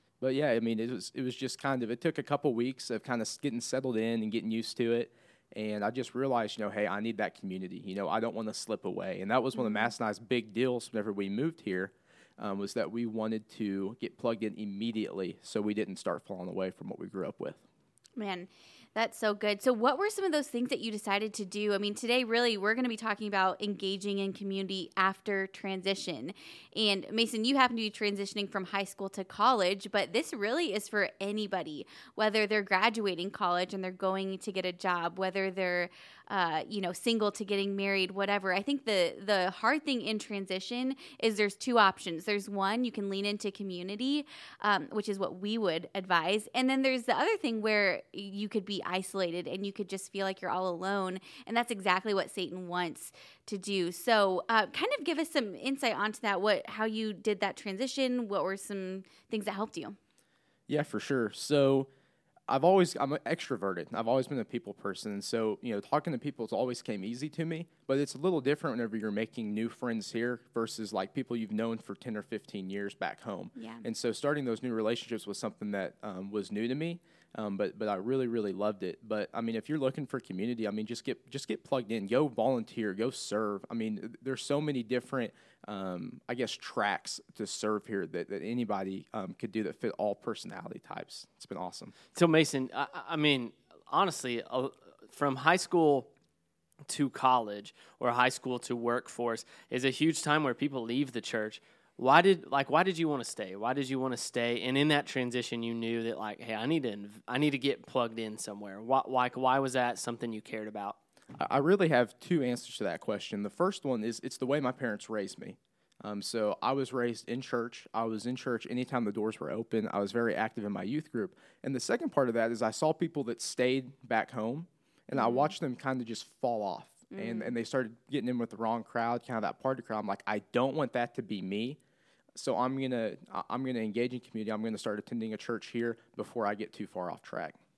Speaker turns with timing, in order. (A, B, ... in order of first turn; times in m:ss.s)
0:00.2-0:17.6 A
0:09.5-0:09.9 B
0:18.2-1:00.0 B
1:00.7-1:01.9 A
1:02.5-1:32.0 A
1:13.6-1:13.8 B
1:32.2-1:36.1 C
1:36.9-1:51.0 C
1:51.4-2:11.8 A
2:05.1-2:05.5 B
2:07.1-2:07.6 B
2:12.4-2:17.6 A